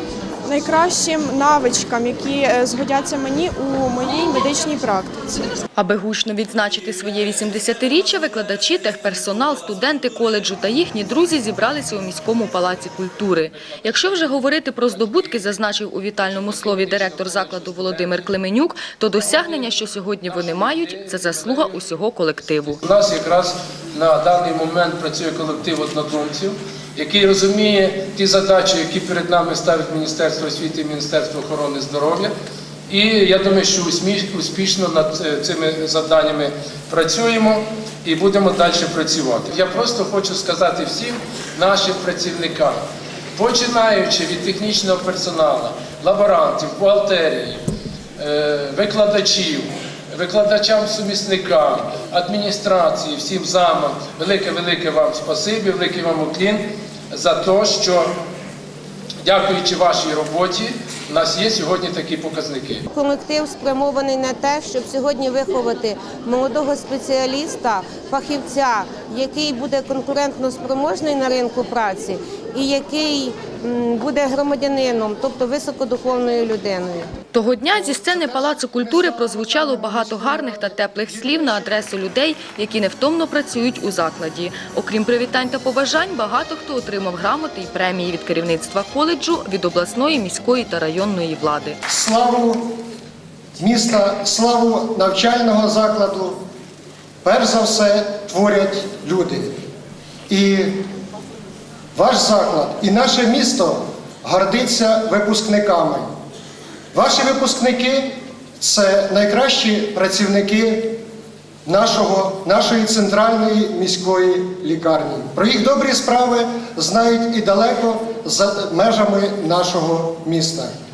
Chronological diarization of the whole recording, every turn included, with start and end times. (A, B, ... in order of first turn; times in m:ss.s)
0:00.4-0:05.5 A
0:05.8-0:22.8 B
0:13.8-0:15.6 C
0:16.2-0:18.3 C
0:19.2-0:19.8 C
0:20.3-0:21.8 C
0:22.7-0:32.3 C
0:32.9-0:42.8 C
0:43.4-0:47.6 C
0:48.2-0:58.2 C
0:59.2-1:02.8 C
1:02.9-1:17.1 D
1:17.3-1:31.8 B
1:17.9-1:21.8 E
1:31.9-1:32.8 E
1:33.6-1:36.4 E
1:37.2-1:39.6 E
1:40.3-1:40.8 E
1:41.9-1:46.1 E
1:46.9-1:51.0 E
1:51.6-2:00.7 E